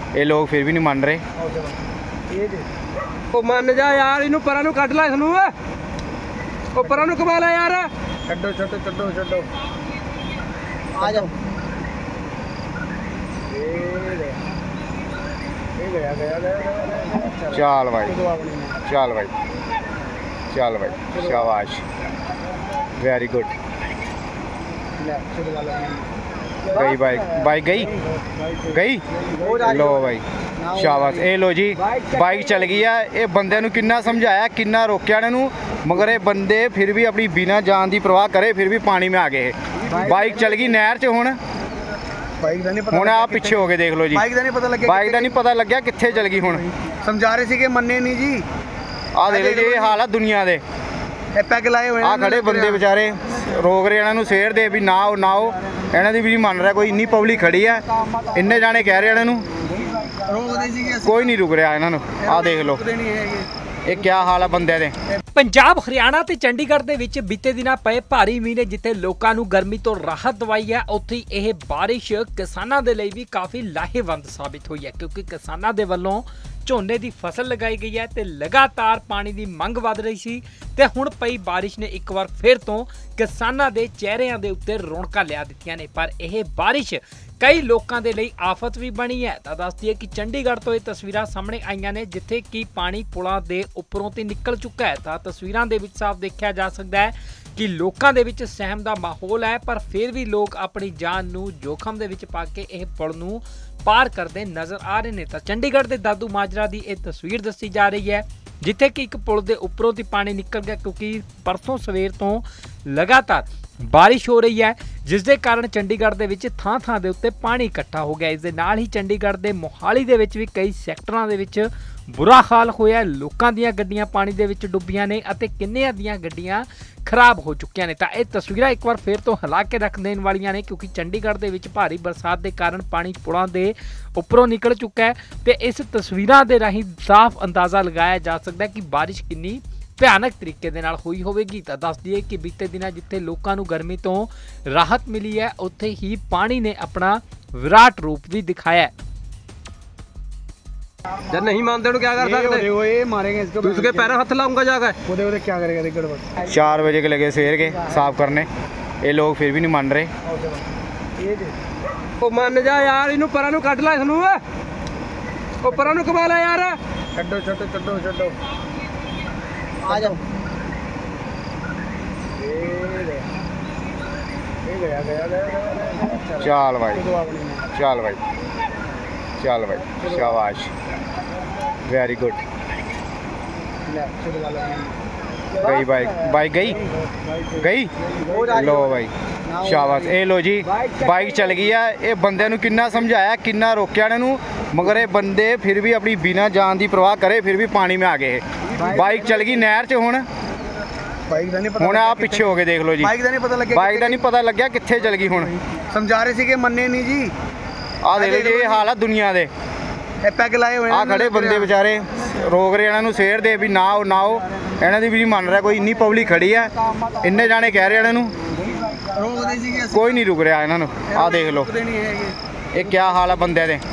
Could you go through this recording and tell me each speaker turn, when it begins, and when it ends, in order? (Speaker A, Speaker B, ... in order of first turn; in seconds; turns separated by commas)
Speaker A: 0.1-1.2, Speaker B: 1.4-2.6, Speaker C: 3.3-5.5, Speaker C: 6.7-7.9, Speaker B: 8.3-9.5, Speaker B: 10.9-11.3, Speaker B: 13.5-14.4, Speaker B: 15.8-18.8, Speaker A: 17.5-18.1, Speaker A: 18.9-19.3, Speaker A: 20.5-21.8, Speaker B: 21.1-21.5, Speaker A: 23.0-23.5, Speaker B: 25.0-26.1, Speaker B: 26.6-26.9, Speaker A: 26.7-27.9, Speaker B: 27.7-31.3, Speaker A: 28.7-29.0, Speaker A: 29.6-30.2, Speaker A: 30.7-41.4, Speaker B: 42.4-45.3, Speaker A: 42.9-44.2, Speaker A: 44.8-46.6, Speaker B: 47.0-48.5, Speaker A: 49.1-50.6, Speaker B: 49.3-50.0, Speaker B: 51.3-52.9, Speaker A: 52.0-57.8, Speaker A: 58.3-59.5, Speaker B: 60.2-61.1, Speaker A: 61.0-62.8, Speaker B: 62.2-63.5, Speaker A: 63.9-64.9, Speaker D: 65.3-148.9, Speaker C: 151.3-152.7, Speaker B: 152.2-154.2, Speaker C: 153.6-155.0, Speaker B: 155.1-156.3, Speaker A: 156.4-158.5, Speaker A: 159.0-160.1, Speaker B: 160.2-160.7, Speaker B: 161.2-161.5, Speaker C: 162.2-164.4, Speaker C: 165.6-166.8, Speaker B: 167.1-168.4, Speaker B: 169.8-170.2, Speaker B: 172.4-173.2, Speaker B: 174.6-177.7, Speaker A: 176.4-177.0, Speaker A: 177.7-178.2, Speaker A: 179.4-180.7, Speaker B: 180.0-180.3, Speaker A: 181.9-182.4, Speaker B: 183.8-184.9, Speaker B: 185.5-185.8, Speaker A: 185.6-186.8, Speaker B: 186.6-190.2, Speaker A: 187.6-187.9, Speaker A: 188.5-189.1, Speaker A: 189.6-200.2, Speaker B: 201.3-204.2, Speaker A: 201.8-203.1, Speaker A: 203.7-205.5, Speaker B: 205.9-207.3, Speaker A: 208.0-209.5, Speaker B: 208.2-208.8, Speaker B: 210.2-211.7, Speaker A: 210.9-216.7, Speaker A: 217.2-218.3, Speaker B: 219.1-220.2, Speaker A: 219.9-221.7, Speaker B: 221.1-222.3, Speaker A: 222.7-223.8